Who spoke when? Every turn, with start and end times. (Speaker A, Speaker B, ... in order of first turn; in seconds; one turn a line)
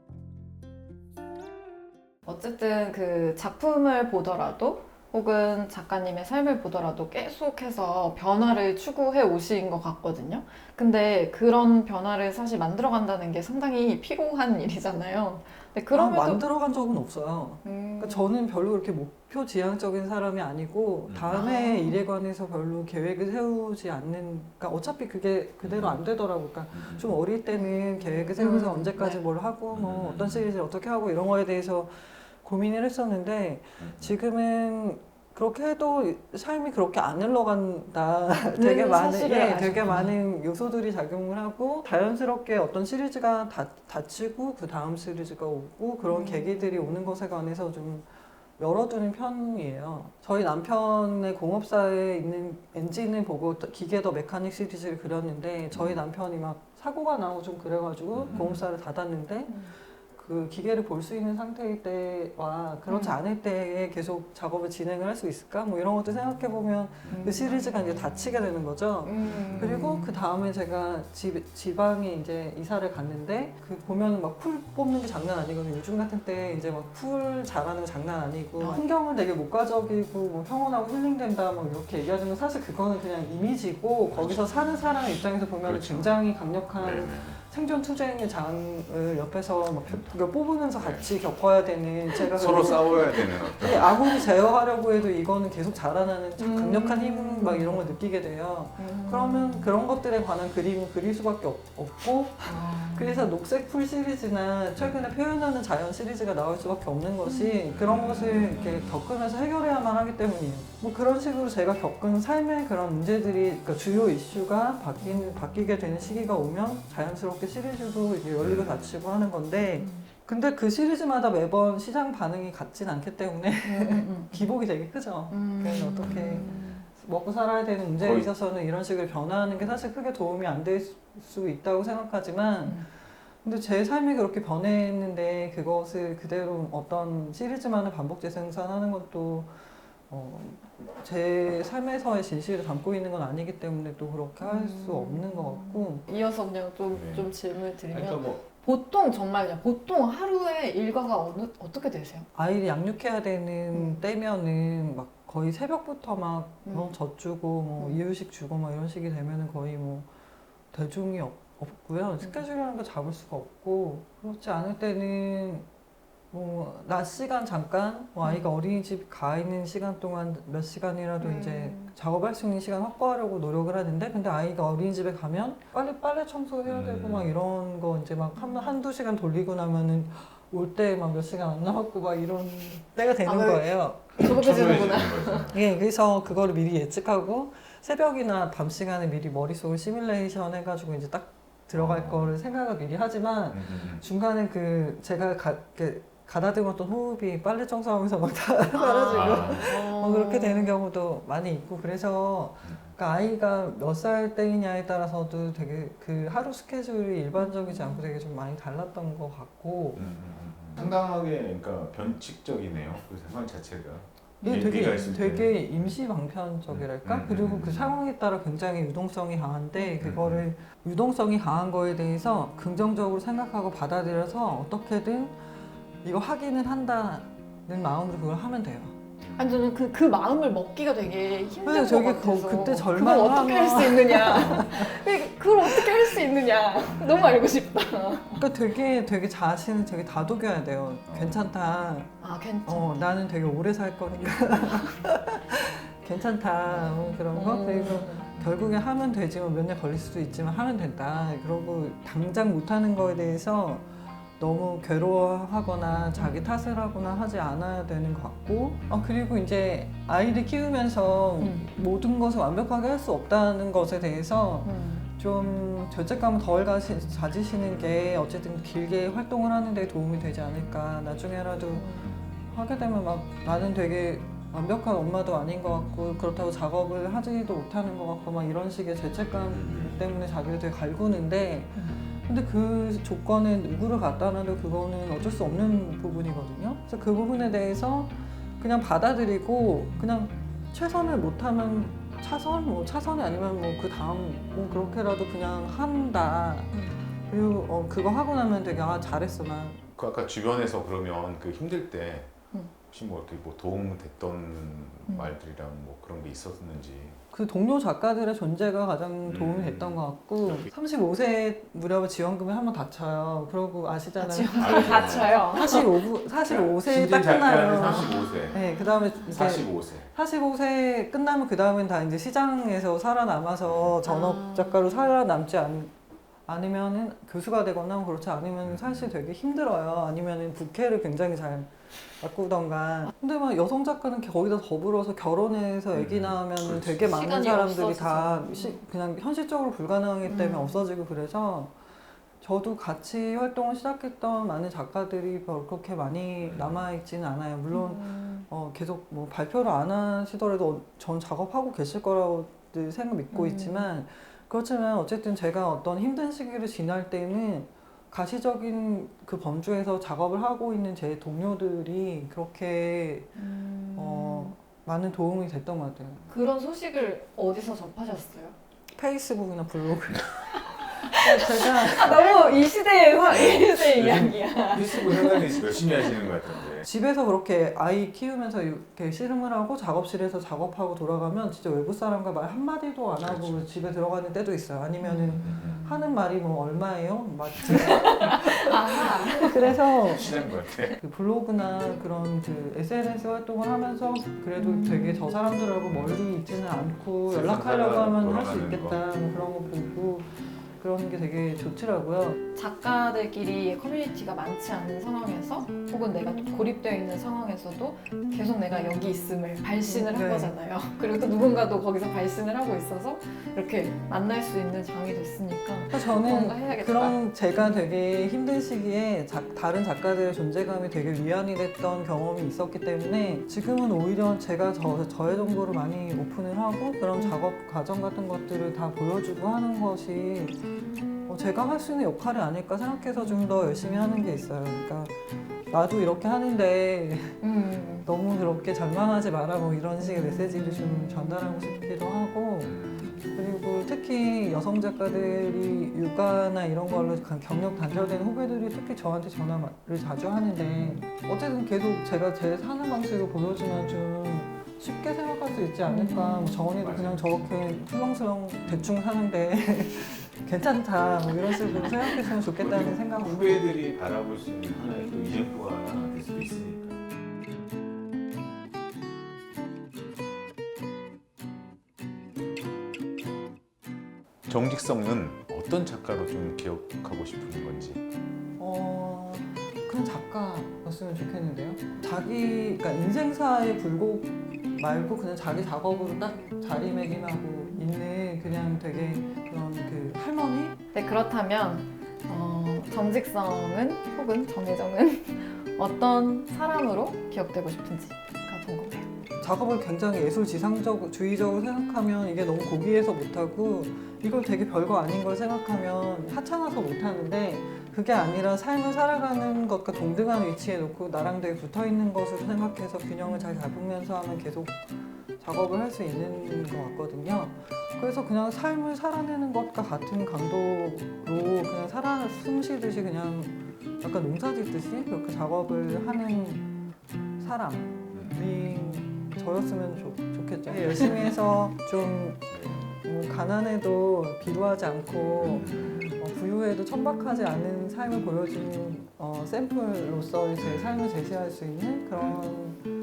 Speaker A: 2.2-16.4
Speaker B: 15.9-48.1
Speaker A: 17.6-18.3
Speaker C: 21.1-21.4
Speaker A: 21.3-22.0
Speaker C: 25.6-26.0
Speaker C: 26.7-27.2
Speaker A: 27.5-29.2
Speaker C: 29.7-30.5
Speaker C: 33.8-34.1
Speaker A: 38.5-40.1
Speaker A: 46.0-47.0
Speaker B: 48.6-146.0
Speaker C: 55.7-56.0
Speaker C: 58.1-58.5
Speaker A: 58.3-58.6
Speaker A: 59.5-59.7
Speaker A: 62.9-63.2
Speaker A: 67.1-67.6
Speaker A: 69.0-70.1
Speaker C: 69.4-69.8
Speaker A: 78.6-78.8
Speaker C: 84.1-85.0
Speaker C: 85.6-86.2
Speaker C: 86.7-87.4
Speaker C: 90.8-91.1
Speaker C: 92.2-94.2
Speaker A: 96.4-97.9
Speaker A: 98.8-99.7
Speaker A: 102.4-103.3
Speaker A: 107.2-107.6
Speaker C: 107.7-109.0
Speaker A: 115.0-115.3
Speaker C: 118.4-118.9
Speaker A: 119.8-120.1
Speaker A: 123.6-124.5
Speaker A: 125.3-126.9
Speaker C: 126.0-126.5
Speaker C: 128.0-128.3
Speaker A: 144.4-152.3
Speaker C: 146.9-147.3
Speaker C: 147.9-148.4
Speaker B: 152.3-160.1
Speaker A: 153.7-154.0
Speaker A: 156.6-156.9
Speaker B: 160.7-165.7
Speaker B: 166.3-184.1
Speaker A: 171.2-171.9
Speaker C: 176.7-177.3
Speaker A: 178.4-178.7
Speaker A: 183.2-185.5
Speaker C: 184.2-185.7
Speaker B: 185.5-210.1
Speaker C: 191.7-192.3
Speaker C: 193.5-194.0
Speaker A: 198.7-200.8
Speaker C: 199.1-199.7
Speaker C: 202.6-202.9
Speaker A: 207.4-208.1
Speaker C: 209.9-215.9
Speaker B: 214.4-225.4
Speaker C: 216.7-218.0
Speaker C: 220.0-220.4
Speaker B: 226.0-228.9
Speaker C: 229.2-229.5
Speaker A: 229.3-238.4
Speaker B: 231.6-234.8
Speaker B: 238.3-242.1
Speaker C: 241.1-241.4
Speaker A: 242.2-243.0
Speaker B: 242.6-271.9
Speaker A: 247.3-248.3
Speaker A: 261.4-261.7
Speaker A: 264.6-265.1
Speaker A: 271.7-272.1
Speaker B: 272.5-299.8
Speaker C: 279.5-280.0
Speaker C: 299.9-302.3
Speaker C: 302.9-307.2
Speaker A: 305.1-305.3
Speaker B: 307.3-325.9
Speaker C: 309.2-310.0
Speaker A: 314.2-316.1
Speaker C: 314.5-315.4
Speaker C: 316.4-318.7
Speaker A: 318.5-319.4
Speaker C: 319.3-320.1
Speaker C: 323.6-323.9
Speaker A: 324.0-325.0
Speaker B: 326.4-341.7
Speaker C: 328.6-329.1
Speaker C: 335.9-337.1
Speaker A: 337.0-338.8
Speaker A: 340.2-340.8
Speaker B: 342.4-363.3
Speaker C: 346.4-346.8
Speaker A: 347.7-348.4
Speaker A: 353.3-353.9
Speaker A: 363.3-364.5
Speaker B: 363.9-366.2
Speaker A: 366.3-368.6
Speaker B: 368.9-372.5
Speaker A: 371.0-376.4
Speaker C: 373.2-376.9
Speaker B: 376.8-390.3
Speaker C: 383.2-383.7
Speaker A: 385.0-385.9
Speaker C: 385.4-385.8
Speaker A: 387.6-390.5
Speaker C: 389.6-391.0
Speaker B: 390.9-402.4
Speaker A: 394.6-395.3
Speaker C: 397.3-400.1
Speaker A: 402.5-417.8
Speaker B: 408.7-409.0
Speaker B: 409.8-410.5
Speaker B: 415.9-430.6
Speaker B: 431.3-437.4
Speaker A: 437.4-438.1
Speaker B: 438.0-463.7
Speaker C: 442.8-443.0
Speaker A: 450.8-451.0
Speaker A: 455.9-456.7
Speaker C: 456.8-457.6
Speaker C: 461.6-461.9
Speaker C: 462.6-467.0
Speaker C: 474.4-478.0
Speaker B: 478.6-490.8
Speaker A: 490.9-499.1
Speaker B: 499.4-526.7
Speaker A: 513.2-513.7
Speaker B: 527.4-542.8
Speaker C: 528.1-528.5
Speaker A: 530.7-531.2
Speaker C: 532.5-533.0
Speaker C: 535.4-536.2
Speaker C: 540.6-541.0